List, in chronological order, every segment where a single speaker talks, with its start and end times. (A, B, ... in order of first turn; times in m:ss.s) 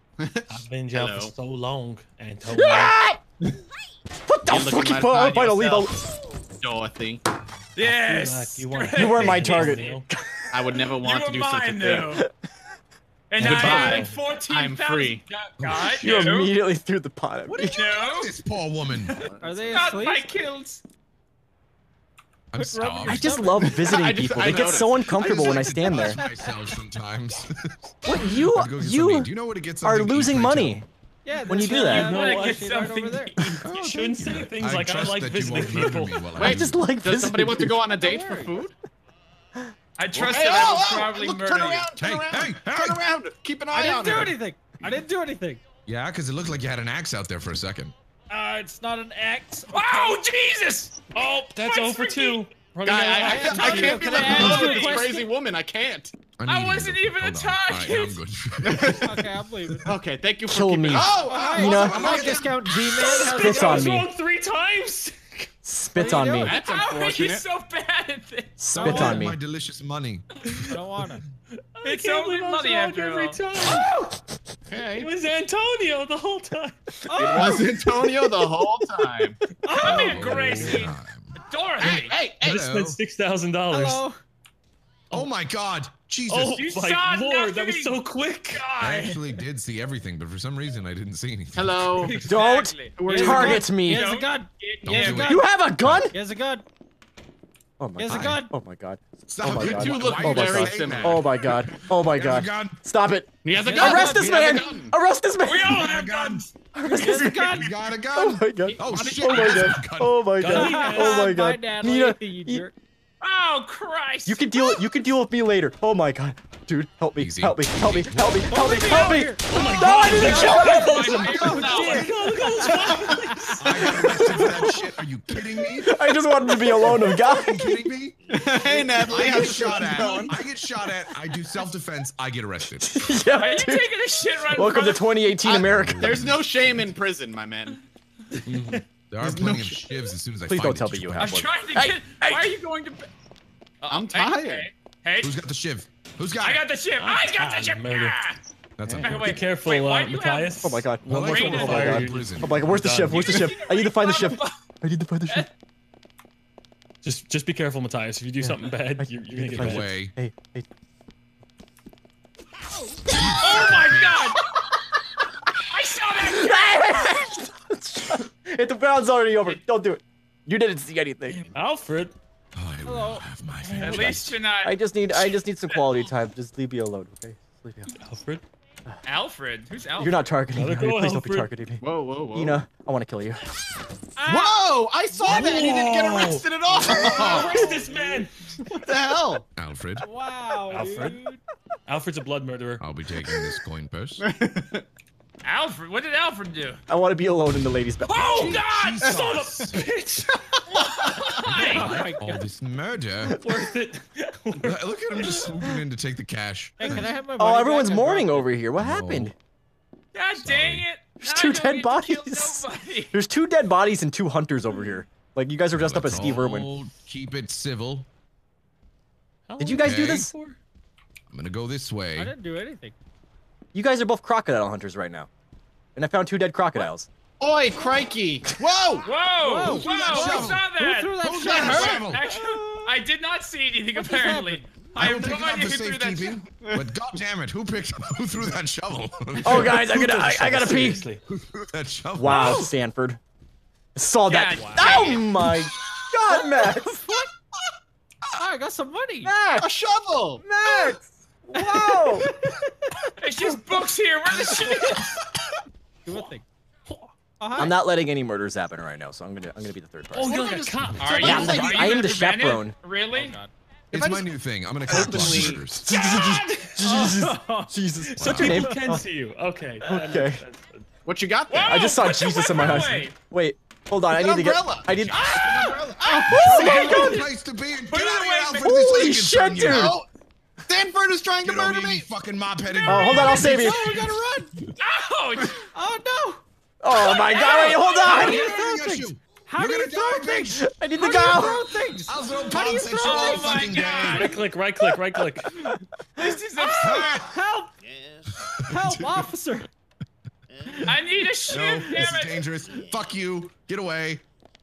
0:00.2-0:01.3 A
0:00.5-0:03.0 B
0:02.5-0:03.2 C
0:04.3-0:06.0 C
0:04.5-0:05.9 A
0:06.6-0:07.2 A
0:07.8-0:10.0 D
0:07.8-0:10.1 B
0:08.9-0:10.8 C
0:10.5-0:12.2 A
0:11.0-0:12.2 D
0:13.3-0:16.5 D
0:13.4-0:15.2 A
0:13.4-0:14.2 B
0:15.6-0:16.3 E
0:16.0-0:17.8 C
0:17.5-0:19.3 E
0:17.7-0:18.4 D
0:19.0-0:20.8 D
0:19.2-0:19.9 A
0:19.4-0:20.2 F
0:22.5-0:23.6 E
0:22.6-0:24.0 F
0:23.0-0:26.2 C
0:23.7-0:25.4 A
0:24.4-0:30.8 E
0:26.0-0:26.5 F
0:28.0-0:29.3 C
0:29.8-0:30.9 C
0:31.2-0:33.4 F
0:31.4-0:32.8 B
0:31.5-0:32.1 C
0:31.6-0:33.7 D
0:33.6-0:36.8 E
0:33.7-0:36.4 B
0:36.4-0:38.7 A
0:36.4-0:37.8 C
0:37.9-0:38.6 F
0:40.0-0:41.9 D
0:40.2-0:40.6 E
0:40.2-0:44.4 A
0:42.0-0:43.0 E
0:43.7-0:45.6 F
0:45.9-0:47.9 E
0:48.3-0:50.2 F
0:49.7-0:52.4 D
0:51.1-0:55.0 B
0:52.8-0:56.1 A
0:53.4-0:53.7 E
0:53.6-0:55.3 F
0:54.4-0:55.0 D
0:56.4-0:59.8 E
0:56.5-0:58.2 D
0:58.6-0:59.1 A
0:58.9-0:59.9 F
0:59.8-1:02.4 A
1:00.5-1:02.2 C
1:00.9-1:03.2 E
1:01.1-1:04.0 F
1:02.8-1:05.5 B
1:03.2-1:04.1 C
1:05.6-1:06.5 C
1:06.0-1:06.6 F
1:06.3-1:07.4 A
1:06.5-1:08.6 D
1:08.6-1:09.4 C
1:08.8-1:09.3 F
1:08.8-1:11.1 E
1:10.7-1:11.2 F
1:11.8-1:14.0 B
1:11.8-1:13.4 D
1:14.7-1:15.1 A
1:14.9-1:17.6 B
1:17.1-1:18.4 F
1:17.1-1:19.4 A
1:19.6-1:20.3 F
1:19.7-1:22.2 D
1:19.8-1:21.4 E
1:20.1-1:20.9 B
1:21.8-1:22.6 A
1:22.4-1:23.0 E
1:22.4-1:24.1 B
1:23.7-1:24.2 F
1:25.1-1:26.7 E
1:26.3-1:28.7 B
1:26.6-1:28.0 D
1:28.5-1:29.2 D
1:28.8-1:32.3 E
1:31.5-1:32.3 A
1:32.0-1:35.4 D
1:32.2-1:34.1 C
1:33.0-1:33.7 A
1:33.0-1:35.5 F
1:34.8-1:36.1 E
1:35.2-1:36.2 C
1:36.1-1:36.6 F
1:37.8-1:45.9 C
1:38.0-1:38.5 F
1:38.1-1:38.4 E
1:39.3-1:42.8 E
1:39.5-1:41.5 A
1:43.4-1:44.9 A
1:43.5-1:44.7 F
1:45.4-1:46.5 D
1:45.6-1:46.4 E
1:46.7-1:52.7 C
1:46.8-1:47.8 F
1:47.0-1:50.5 E
1:48.8-1:49.8 D
1:50.4-1:51.4 B
1:50.5-1:52.7 F
1:53.2-1:54.9 D
1:54.3-2:01.6 C
1:57.2-1:58.6 E
1:58.5-1:59.4 F
1:59.4-2:03.9 B
2:00.0-2:02.1 D
2:01.4-2:03.6 F
2:01.4-2:02.1 E
2:03.6-2:06.0 E
2:03.9-2:04.7 C
2:05.7-2:07.9 C
2:06.8-2:08.2 E
2:08.3-2:10.4 A
2:08.5-2:08.9 F
2:09.1-2:13.0 E
2:12.8-2:13.9 C
2:13.3-2:15.2 D
2:14.5-2:16.2 C
2:15.4-2:17.8 A
2:15.7-2:16.5 E
2:18.4-2:18.9 B
2:19.1-2:21.4 E
2:19.2-2:19.8 A
2:20.5-2:22.4 C
2:21.2-2:23.1 D
2:23.8-2:25.4 D
2:23.9-2:24.7 A
2:25.2-2:26.7 E
2:26.4-2:28.4 D
2:27.0-2:28.2 B
2:28.8-2:29.4 E
2:29.0-2:30.6 D
2:29.0-2:33.6 B
2:30.6-2:35.5 C
2:31.0-2:32.6 E
2:31.2-2:32.0 D
2:33.1-2:34.6 D
2:37.0-2:40.0 B
2:38.4-2:40.7 C
2:39.6-2:40.1 E
2:43.2-2:44.3 E
2:43.4-2:44.4 D
2:45.7-2:47.0 D
2:46.2-2:51.5 C
2:51.5-2:52.2 B
2:52.5-2:54.4 E
2:52.8-2:54.2 F
2:53.7-2:56.1 D
2:54.6-2:57.9 C
2:58.0-2:58.4 B
2:59.0-3:00.3 D
3:00.0-3:03.4 C
3:00.5-3:01.5 B
3:01.8-3:02.6 A
3:04.2-3:04.6 F
3:04.2-3:07.7 A
3:05.2-3:08.3 B
3:06.9-3:07.7 E
3:06.9-3:08.1 F
3:08.7-3:09.5 A
3:09.6-3:10.1 E
3:10.0-3:11.4 F
3:10.7-3:11.3 B
3:11.9-3:12.8 B
3:12.8-3:14.3 E
3:14.2-3:14.8 A
3:15.4-3:16.8 D
3:16.9-3:18.6 C
3:18.0-3:19.1 D
3:18.3-3:19.9 E
3:19.0-3:20.4 B
3:20.7-3:22.0 D
3:21.4-3:23.4 E
3:21.5-3:22.4 F
3:23.4-3:25.5 B
3:24.6-3:27.2 E
3:26.8-3:28.5 F
3:27.4-3:29.3 C
3:28.8-3:29.3 E
3:30.1-3:33.1 D
3:30.4-3:30.9 E
3:31.2-3:36.7 C
3:35.7-3:38.1 E
3:39.5-3:40.6 B
3:39.6-3:40.3 C
3:39.8-3:40.2 E
3:41.3-3:42.3 E
3:42.2-3:43.0 F
3:43.7-3:45.3 C
3:46.0-3:47.1 C
3:47.4-3:49.1 A
3:49.0-3:56.4 D
3:49.4-3:52.9 F
3:49.6-3:50.6 E
3:51.2-3:52.2 E
3:51.4-3:51.9 A
3:54.0-3:54.9 F
3:55.0-3:59.8 E
3:56.6-3:56.9 A
3:59.4-4:01.0 C
3:59.5-4:01.2 B
4:01.3-4:02.7 E
4:02.2-4:03.2 C
4:02.3-4:02.7 B
4:04.0-4:07.1 C
4:04.3-4:05.3 D
4:04.6-4:05.1 F
4:08.4-4:09.3 F
4:09.2-4:09.7 C
4:09.6-4:10.4 A
4:10.4-4:12.3 C
4:11.7-4:13.0 F
4:13.2-4:15.1 D
4:14.3-4:15.2 E
4:16.1-4:16.4 F
4:16.9-4:17.1 B
4:17.4-4:17.8 F
4:17.6-4:22.8 C
4:20.1-4:21.8 B
4:20.4-4:22.0 E
4:21.0-4:23.4 D
4:21.2-4:21.8 A
4:23.1-4:23.5 F
4:23.9-4:25.9 E
4:23.9-4:25.7 A
4:25.0-4:29.0 C
4:25.9-4:26.7 D
4:26.8-4:27.9 F
4:28.2-4:28.7 E
4:28.2-4:30.9 B
4:29.8-4:30.4 C
4:31.0-4:32.0 A
4:31.5-4:33.2 D
4:31.6-4:35.4 C
4:34.1-4:37.2 A
4:34.9-4:40.0 E
4:35.2-4:37.2 D
4:36.3-4:37.2 F
4:36.5-4:37.2 C
4:37.9-4:39.0 D
4:38.6-4:40.0 C
4:39.6-4:40.1 A
4:40.7-4:42.1 A
4:41.4-4:44.7 E
4:42.8-4:43.9 C
4:43.1-4:44.5 A
4:43.2-4:43.7 D
4:44.8-4:45.6 D
4:45.7-4:46.4 F
4:46.8-4:48.5 C
4:46.9-4:48.5 D
4:47.7-4:53.6 F
4:48.1-4:50.6 E
4:50.6-4:51.7 C
4:52.0-4:54.4 E
4:52.9-4:54.4 D
4:54.0-4:55.5 B
4:56.2-4:57.1 D
4:56.8-4:57.4 E
4:56.8-4:57.8 F
4:58.4-4:59.3 E
4:58.6-4:59.7 F
5:00.8-5:02.4 D
5:01.5-5:04.2 E